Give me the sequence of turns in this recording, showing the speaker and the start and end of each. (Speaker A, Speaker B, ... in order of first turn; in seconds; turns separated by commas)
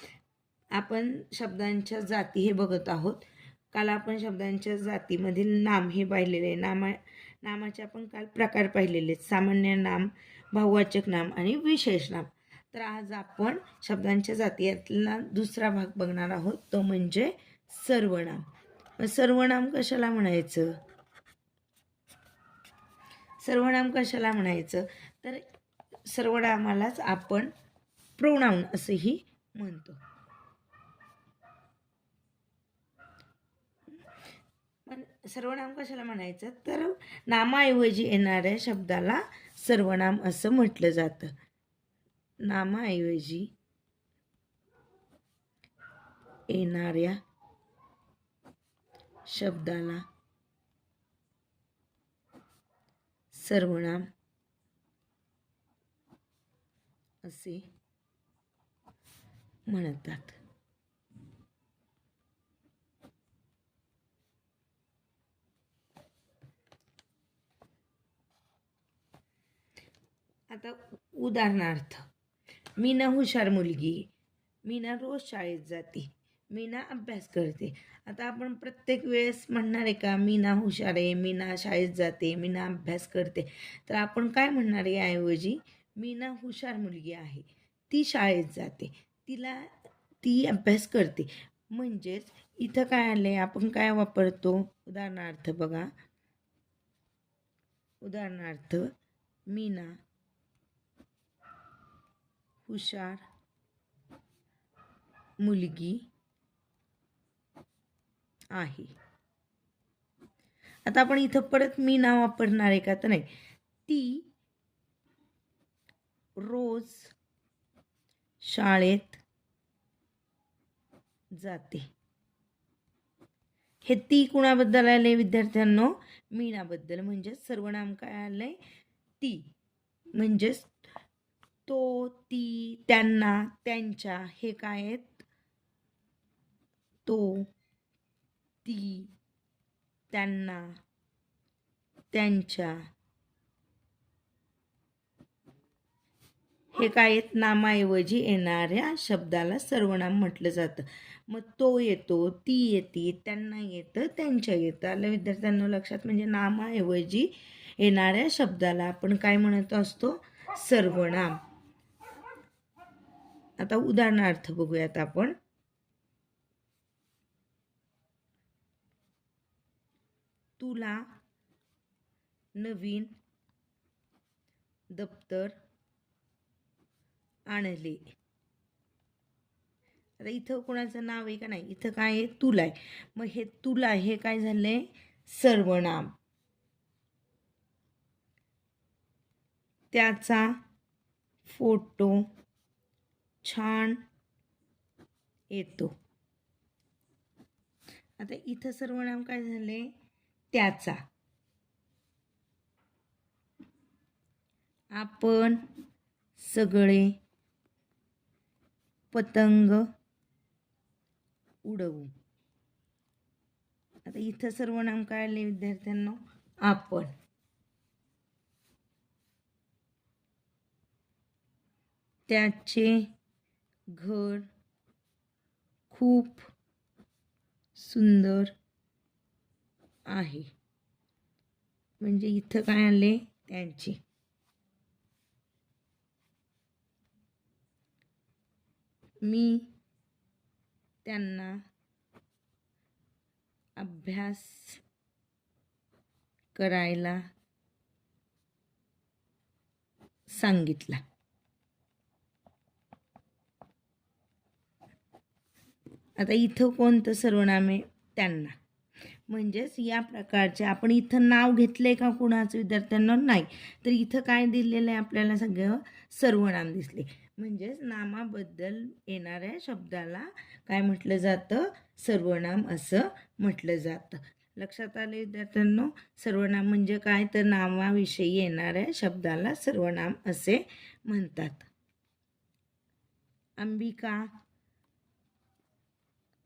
Speaker A: 0.8-18.5, Speaker A: 19.0-20.8, Speaker A: 23.4-25.4, Speaker A: 26.1-27.5, Speaker A: 28.2-30.0, Speaker A: 34.9-41.3, Speaker A: 42.4-43.5, Speaker A: 46.5-47.2, Speaker A: 49.3-50.0, Speaker A: 53.3-54.1, Speaker A: 57.2-57.7, Speaker A: 59.7-60.4, Speaker A: 70.5-72.0, Speaker A: 72.8-74.1, Speaker A: 74.7-89.7, Speaker A: 90.2-95.9, Speaker A: 98.0-98.9, Speaker A: 99.5-100.0, Speaker A: 102.7-103.2, Speaker A: 105.4-106.1, Speaker A: 108.5-108.9, Speaker A: 110.9-113.3, Speaker A: 113.9-114.3, Speaker A: 116.4-117.1, Speaker A: 118.4-119.2, Speaker A: 121.4-121.8, Speaker A: 123.8-128.6, Speaker A: 129.2-129.5, Speaker A: 130.2-130.8, Speaker A: 131.7-135.3, Speaker A: 137.1-137.5, Speaker A: 138.7-139.1, Speaker A: 140.1-140.8, Speaker A: 142.1-142.8, Speaker A: 146.7-161.4, Speaker A: 163.6-165.3, Speaker A: 170.6-171.1, Speaker A: 172.6-173.1, Speaker A: 174.9-175.6, Speaker A: 177.5-178.0, Speaker A: 180.2-186.1, Speaker A: 189.9-190.6, Speaker A: 191.5-192.3, Speaker A: 193.4-194.0, Speaker A: 195.5-195.9, Speaker A: 198.2-199.9, Speaker A: 200.5-201.0, Speaker A: 205.0-205.6, Speaker A: 206.4-207.2, Speaker A: 209.1-209.9, Speaker A: 211.7-212.1, Speaker A: 214.1-217.1, Speaker A: 222.3-223.1, Speaker A: 223.9-224.5, Speaker A: 225.9-226.5, Speaker A: 227.8-228.5, Speaker A: 230.1-230.5, Speaker A: 232.0-234.0, Speaker A: 239.2-239.7, Speaker A: 241.1-241.6, Speaker A: 243.8-244.8, Speaker A: 246.6-247.2, Speaker A: 250.3-251.0, Speaker A: 256.2-258.6, Speaker A: 259.3-281.7, Speaker A: 283.6-284.3